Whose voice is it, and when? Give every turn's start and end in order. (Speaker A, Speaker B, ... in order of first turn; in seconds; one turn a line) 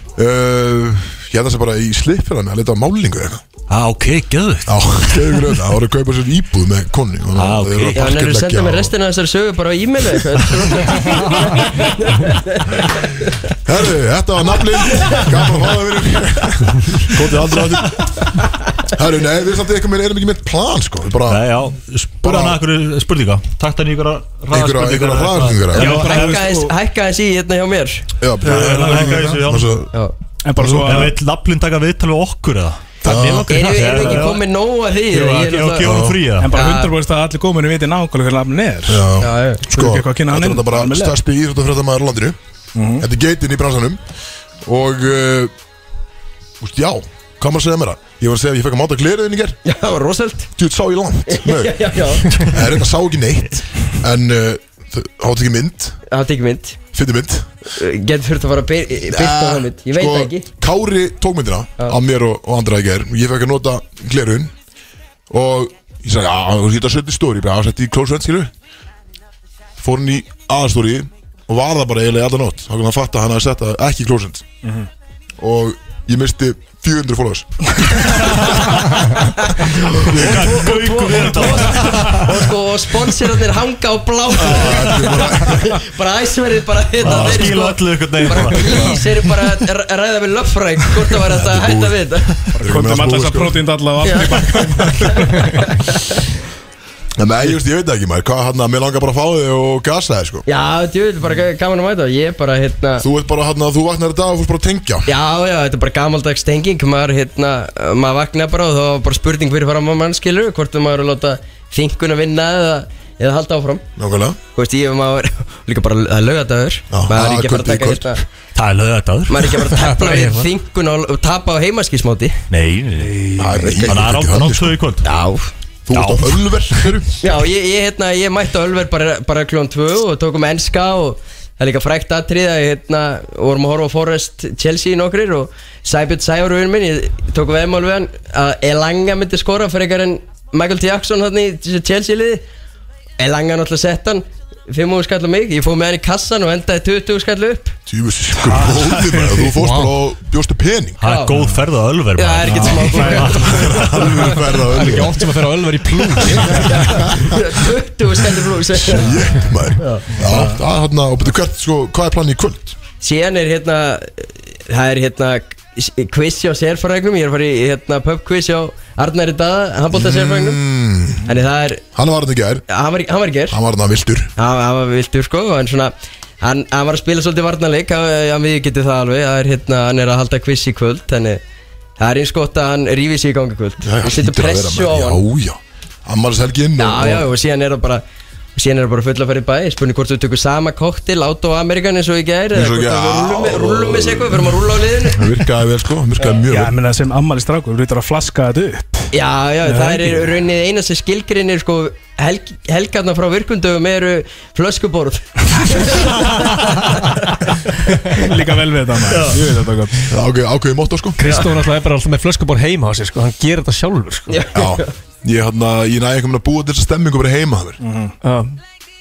Speaker A: 0.1-3.4
Speaker B: 3.7-4.8
Speaker A: 4.7-8.9
Speaker B: 7.3-8.1
Speaker C: 8.0-13.5
Speaker A: 13.6-18.3
Speaker C: 14.9-15.2
Speaker A: 18.8-21.4
Speaker B: 21.2-26.5
Speaker A: 22.2-22.6
Speaker A: 24.5-25.9
Speaker C: 25.7-28.1
Speaker D: 25.7-26.7
Speaker A: 28.2-29.9
Speaker B: 28.4-29.8
Speaker D: 28.5-29.4
Speaker D: 30.4-31.2
Speaker A: 30.6-31.1
Speaker B: 30.8-32.8
Speaker E: 33.0-34.3
Speaker A: 33.0-33.6
Speaker C: 33.5-36.0
Speaker B: 33.6-34.4
Speaker B: 35.1-36.5
Speaker A: 35.8-36.3
Speaker D: 36.4-39.1
Speaker C: 36.5-36.9
Speaker A: 38.9-42.4
Speaker C: 39.2-39.6
Speaker D: 39.7-41.2
Speaker D: 42.7-43.0
Speaker A: 43.0-44.0
Speaker A: 44.6-45.5
Speaker A: 46.6-49.6
Speaker C: 49.6-50.5
Speaker A: 50.5-56.0
Speaker C: 51.3-52.6
Speaker C: 56.1-56.8
Speaker A: 56.9-57.5
Speaker C: 57.7-60.5
Speaker A: 59.1-64.5
Speaker A: 65.3-68.5
Speaker A: 69.8-74.5
Speaker D: 74.6-74.9
Speaker A: 75.4-78.7
Speaker B: 78.1-78.8
Speaker C: 79.2-92.3
Speaker A: 79.9-81.0
Speaker B: 80.0-82.5
Speaker A: 84.3-85.8
Speaker B: 84.6-85.3
Speaker B: 87.0-89.1
Speaker A: 87.0-87.7
Speaker A: 88.3-89.1
Speaker A: 91.2-93.6
Speaker D: 92.5-95.8
Speaker C: 94.0-94.4
Speaker C: 95.9-96.2
Speaker A: 97.2-100.4
Speaker C: 100.5-103.0
Speaker A: 103.0-105.1
Speaker C: 105.1-113.8
Speaker A: 114.0-114.4
Speaker C: 114.5-118.2
Speaker A: 116.9-118.1
Speaker B: 118.5-119.6
Speaker C: 119.3-122.4
Speaker E: 119.6-120.5
Speaker B: 122.5-123.2
Speaker D: 123.0-123.8
Speaker A: 123.4-124.8
Speaker C: 123.7-123.9
Speaker B: 123.9-125.1
Speaker C: 125.0-125.5
Speaker A: 125.8-127.2
Speaker B: 125.9-126.6
Speaker C: 127.2-142.4
Speaker C: 143.2-147.8
Speaker A: 147.9-151.0
Speaker E: 148.5-149.9
Speaker B: 151.0-154.5
Speaker C: 151.0-151.3
Speaker D: 151.3-151.6
Speaker C: 152.2-153.5
Speaker D: 152.4-153.5
Speaker A: 153.1-155.4
Speaker E: 154.5-157.3
Speaker A: 156.2-157.4
Speaker C: 156.4-159.2
Speaker A: 158.7-162.8
Speaker C: 159.8-160.0
Speaker D: 160.1-160.6
Speaker C: 163.0-170.6
Speaker A: 169.9-171.3
Speaker C: 171.2-171.8
Speaker A: 171.9-172.7
Speaker C: 172.7-173.6
Speaker A: 173.5-174.3
Speaker C: 174.4-181.4
Speaker C: 182.0-185.2
Speaker A: 183.8-187.3
Speaker C: 186.8-188.0
Speaker C: 188.5-195.4
Speaker A: 192.5-196.8
Speaker D: 196.5-199.1
Speaker C: 199.1-208.3
Speaker D: 199.6-200.4
Speaker D: 208.0-210.0
Speaker B: 209.1-209.4
Speaker A: 210.1-211.4
Speaker E: 211.2-214.4
Speaker C: 211.2-211.5
Speaker C: 214.3-214.9
Speaker A: 214.5-217.8
Speaker D: 217.8-218.1
Speaker E: 218.2-218.6